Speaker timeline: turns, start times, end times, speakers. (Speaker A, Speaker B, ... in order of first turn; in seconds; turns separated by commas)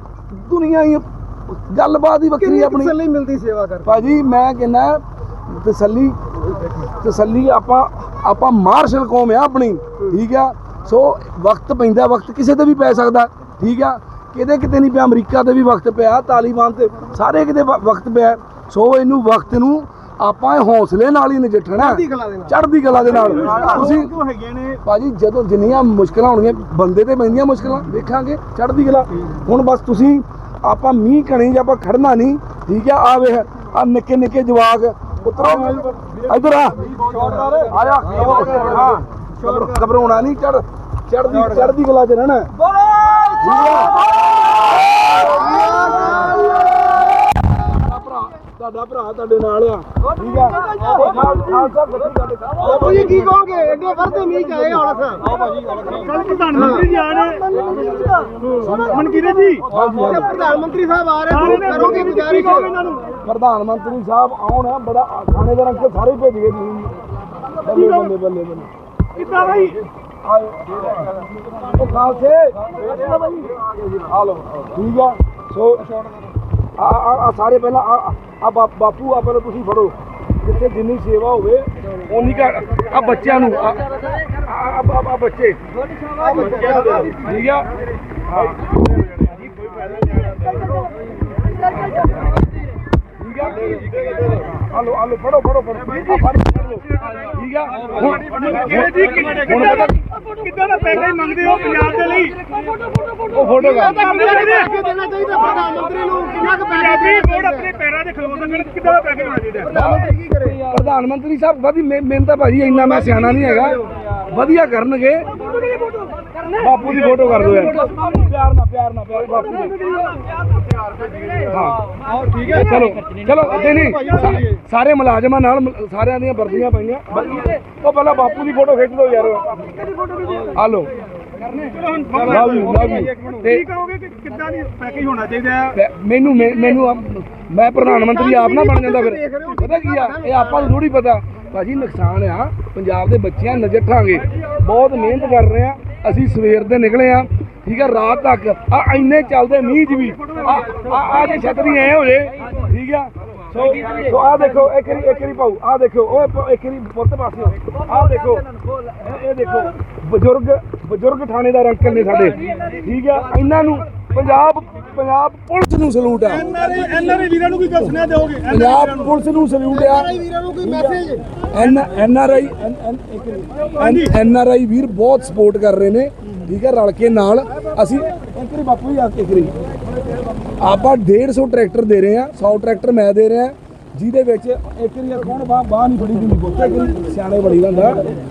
Speaker A: 0.3-2.9, Speaker B: 2.4-4.1, Speaker A: 3.8-24.1, Speaker B: 21.8-22.6, Speaker C: 23.0-24.8, Speaker B: 23.5-24.0, Speaker A: 24.8-36.9, Speaker C: 37.0-37.6, Speaker B: 37.2-40.0, Speaker A: 37.6-42.5, Speaker A: 43.4-44.0, Speaker B: 43.6-43.8, Speaker B: 45.2-47.1, Speaker A: 45.5-47.0, Speaker A: 47.5-53.3, Speaker B: 50.2-51.5, Speaker B: 52.6-55.4, Speaker C: 55.3-57.8, Speaker B: 56.0-57.1, Speaker B: 57.6-62.7, Speaker C: 58.5-59.7, Speaker A: 59.7-60.5, Speaker C: 61.3-63.1, Speaker A: 63.2-67.0, Speaker A: 67.6-68.7, Speaker C: 67.7-68.1, Speaker C: 69.2-69.8, Speaker A: 70.2-71.1, Speaker A: 71.6-72.8, Speaker A: 74.2-75.9, Speaker A: 76.8-85.6, Speaker B: 86.2-87.2, Speaker C: 86.4-86.9, Speaker A: 87.1-87.7, Speaker A: 88.3-89.1, Speaker A: 93.2-93.8, Speaker A: 94.4-100.0, Speaker C: 98.0-102.5, Speaker A: 103.2-104.1, Speaker B: 103.6-107.8, Speaker C: 103.9-104.8, Speaker C: 105.6-109.8, Speaker B: 109.7-110.7, Speaker A: 109.7-110.0, Speaker A: 110.7-115.4, Speaker A: 116.5-120.0, Speaker C: 119.8-120.2, Speaker A: 121.4-121.8, Speaker C: 122.1-122.8, Speaker A: 122.5-129.9, Speaker C: 123.7-124.5, Speaker A: 130.5-130.9, Speaker C: 131.4-135.8, Speaker A: 132.2-133.7, Speaker A: 135.7-166.6, Speaker B: 137.8-140.8, Speaker C: 166.3-169.1, Speaker A: 168.5-170.1, Speaker B: 169.7-171.2, Speaker A: 171.5-179.5, Speaker A: 180.6-188.1